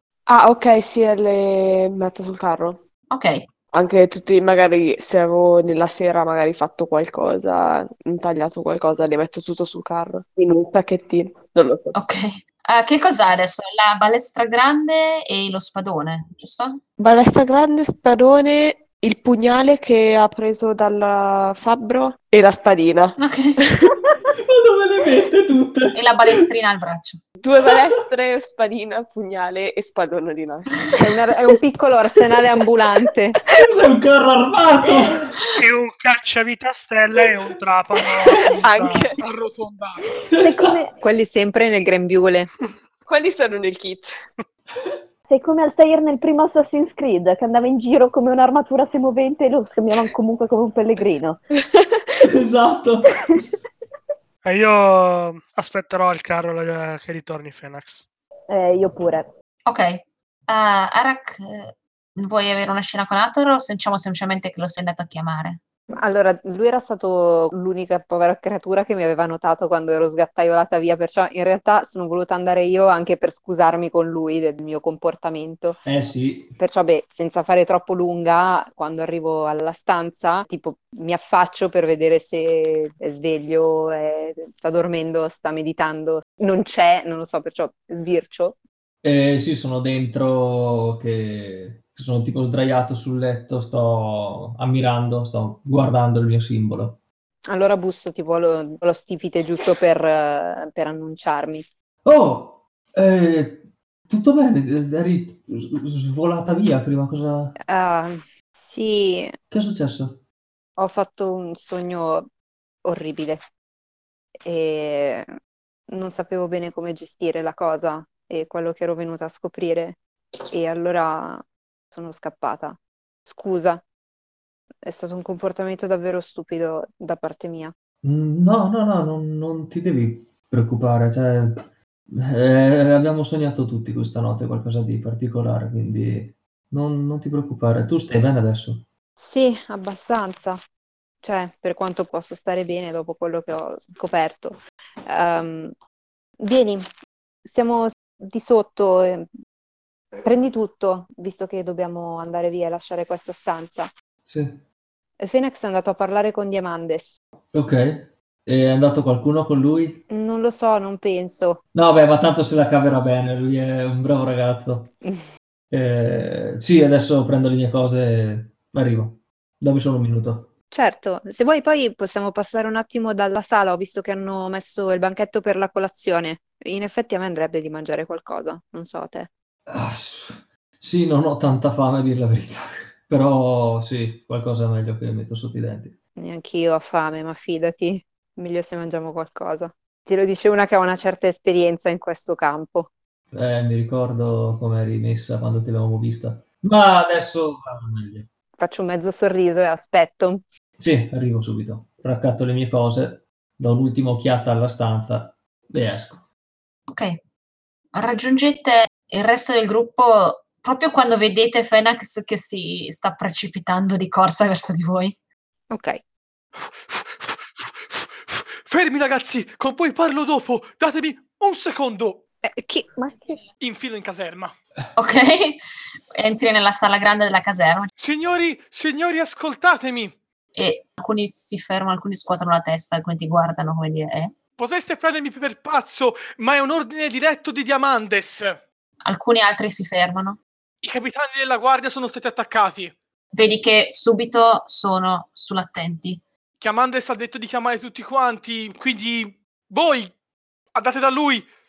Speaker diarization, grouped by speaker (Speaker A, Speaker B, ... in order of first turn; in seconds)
Speaker A: 0.3-2.8, 3.7-11.9, 17.0-23.9, 27.4-30.9, 38.2-39.2, 43.1-44.1
Speaker B: 3.1-3.4, 11.9-16.8, 23.2-23.6, 25.9-27.2, 59.6-65.6, 206.9-207.2, 207.9-215.1, 224.9-225.6, 226.1-227.9, 230.5-234.3, 239.0-240.4, 243.3-246.2
Speaker C: 24.4-26.4, 27.6-28.0, 33.5-35.4, 40.3-40.8, 52.2-53.4, 75.8-76.6, 89.0-97.0, 102.0-107.5, 109.5-110.2, 128.0-138.8, 154.2-154.6, 157.5-160.0, 161.7-164.9, 165.7-170.5, 179.7-186.0, 193.3-198.3, 200.8-206.2
Speaker D: 31.0-33.4, 41.0-42.5, 66.0-75.8, 76.6-88.6, 97.5-101.7, 107.7-109.4, 110.8-112.3, 112.8-113.4, 114.4-115.3, 115.9-120.0, 120.5-123.8, 124.8-127.7, 139.2-140.6, 141.2-145.8, 146.4-146.8, 147.4-149.3, 150.2-153.9, 155.2-157.2, 160.1-161.6, 170.7-179.3, 186.2-192.9, 198.6-200.4, 215.7-216.0, 222.4-222.9
Speaker E: 35.6-39.0, 54.4-58.0
Speaker F: 39.2-40.0, 216.6-222.2, 223.6-224.5, 228.0-230.1, 234.6-238.6, 240.8-242.9, 246.6-250.1, 250.7-251.4
Speaker G: 40.4-40.9, 45.3-51.4, 58.5-59.3, 223.0-223.4